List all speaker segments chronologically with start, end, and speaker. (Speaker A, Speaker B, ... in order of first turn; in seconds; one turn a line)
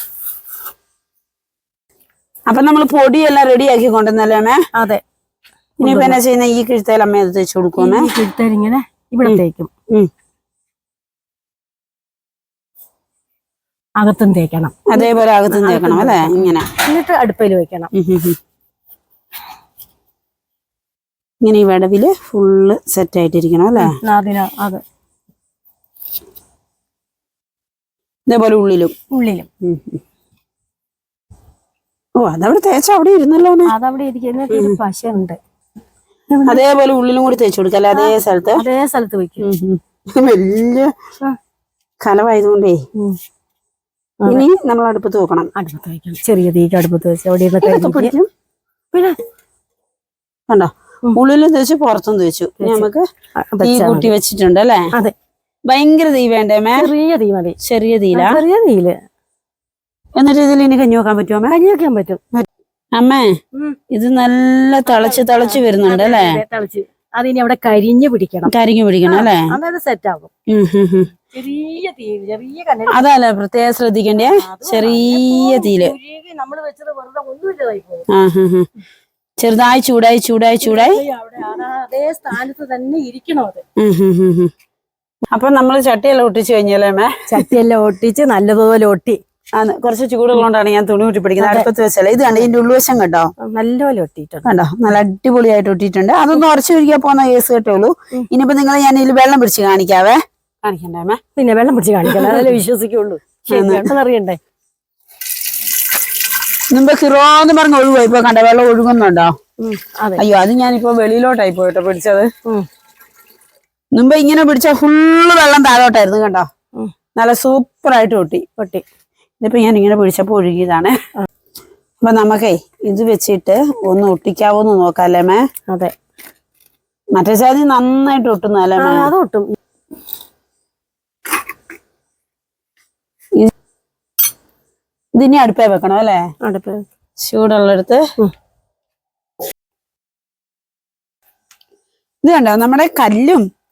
Speaker A: 2.5-4.6
Speaker B: 4.7-5.0
Speaker A: 5.8-8.1
Speaker B: 5.8-6.2
Speaker B: 7.8-9.7
Speaker B: 14.0-17.9
Speaker A: 14.9-16.7
Speaker A: 17.9-18.4
Speaker A: 21.4-23.9
Speaker B: 23.8-24.8
Speaker A: 28.3-28.9
Speaker B: 29.1-29.5
Speaker A: 29.6-30.0
Speaker A: 32.2-33.7
Speaker B: 33.7-35.4
Speaker A: 34.5-34.8
Speaker B: 36.3-36.6
Speaker A: 36.5-38.6
Speaker B: 37.9-39.5
Speaker A: 39.4-40.9
Speaker A: 42.0-42.8
Speaker A: 44.2-45.5
Speaker B: 45.5-48.1
Speaker A: 47.6-48.3
Speaker A: 50.5-53.0
Speaker B: 52.6-54.1
Speaker A: 53.6-54.9
Speaker A: 55.7-56.9
Speaker B: 56.8-57.6
Speaker A: 57.6-58.4
Speaker B: 58.1-59.0
Speaker A: 60.2-61.5
Speaker B: 61.5-62.2
Speaker A: 62.3-63.3
Speaker A: 63.9-66.4
Speaker B: 64.9-68.5
Speaker A: 68.5-69.5
Speaker B: 69.0-70.3
Speaker A: 70.5-71.1
Speaker B: 71.3-73.0
Speaker A: 72.9-75.9
Speaker B: 74.2-78.0
Speaker A: 78.1-78.7
Speaker A: 79.4-81.0
Speaker B: 80.6-83.6
Speaker A: 83.8-84.5
Speaker A: 85.3-87.4
Speaker B: 87.3-89.2
Speaker A: 89.5-93.3
Speaker B: 91.4-91.7
Speaker B: 93.4-94.5
Speaker A: 94.4-101.2
Speaker B: 101.3-104.4
Speaker A: 102.1-102.5
Speaker A: 103.5-103.9
Speaker A: 106.7-109.3
Speaker B: 109.6-110.2
Speaker A: 110.2-112.3
Speaker A: 113.9-116.5
Speaker A: 117.2-118.4
Speaker B: 118.6-118.8
Speaker A: 119.4-120.9
Speaker A: 122.0-125.4
Speaker B: 125.7-125.9
Speaker A: 127.2-129.1
Speaker B: 128.8-129.5
Speaker A: 135.2-136.2
Speaker B: 136.4-136.8
Speaker A: 137.2-138.0
Speaker A: 142.2-143.4